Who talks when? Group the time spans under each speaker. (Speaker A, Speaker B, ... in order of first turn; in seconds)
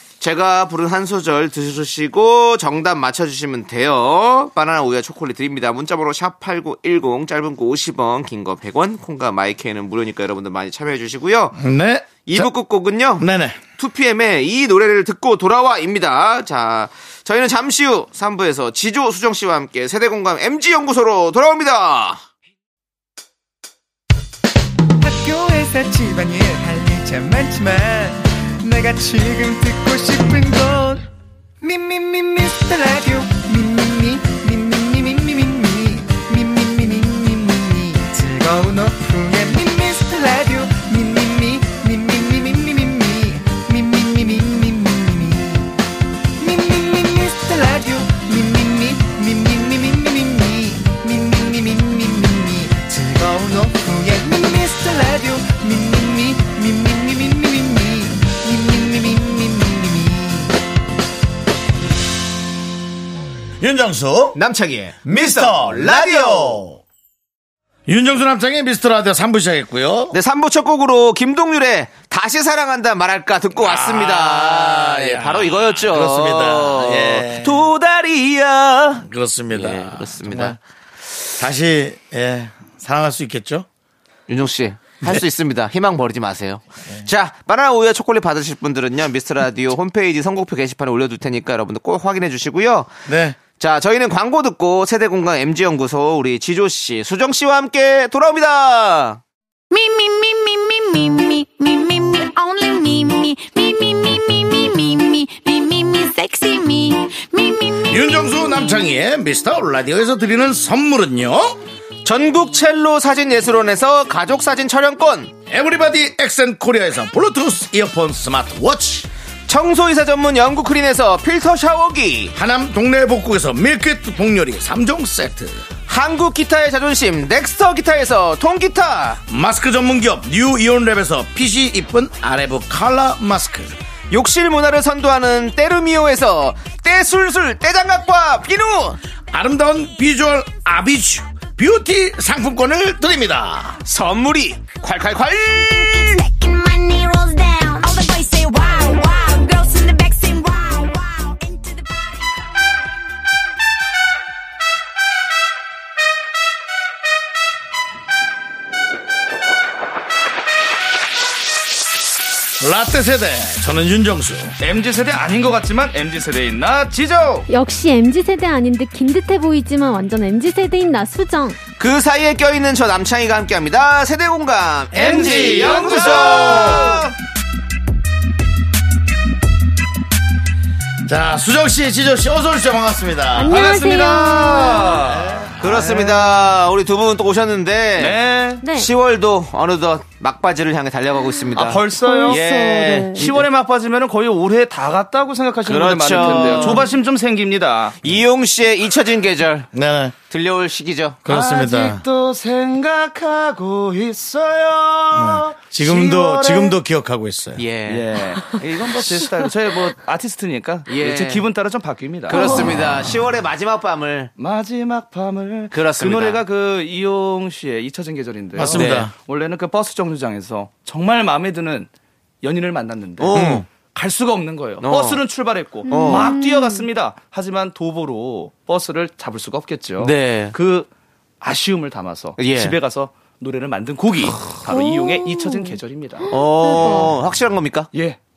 Speaker A: 0.2-11.6, 12.3-13.3, 13.8-22.2, 64.3-66.6, 70.1-80.6, 84.3-92.9, 93.6-99.2, 112.0-115.3, 119.5-122.3, 125.9-129.2, 134.1-139.0, 143.8-146.2, 171.8-177.1, 185.6-188.2, 188.7-193.4, 195.7-196.9, 198.0-199.7, 200.3-201.2, 207.6-208.1, 210.9-211.4, 212.3-214.3, 215.7-216.4, 218.6-219.1, 223.2-223.7, 224.8-225.2, 225.9-226.3, 230.0-230.6, 232.4-232.8, 236.3-237.9
Speaker B: 11.6-12.5, 13.2-13.6, 63.6-64.4, 65.1-66.8, 67.9-70.2, 73.6-77.6, 79.0-80.6, 81.4-83.7, 93.1-93.4, 107.8-111.6, 115.5-119.1, 122.3-125.6, 129.3-133.8, 139.3-143.8, 162.6-164.6, 175.2-177.0, 181.1-183.6, 185.1-185.9, 199.7-200.1, 201.2-202.0, 205.1-207.6, 212.8-213.1, 218.6-219.1, 223.3-223.6
Speaker C: 25.0-31.1, 31.6-45.8, 46.4-60.6
Speaker D: 99.7-108.3, 145.5-152.4
Speaker E: 164.6-167.5, 174.9-177.1, 183.5-186.3, 188.0-188.6, 191.6-192.4, 193.2-198.0, 201.3-206.8, 207.9-212.6, 214.4-221.9, 222.4-230.9, 231.4-236.3, 237.9-238.2
Speaker F: 167.5-171.6, 183.3-185.0, 188.6-188.9, 191.9-193.2, 212.3-212.8, 225.9-226.9, 234.6-237.1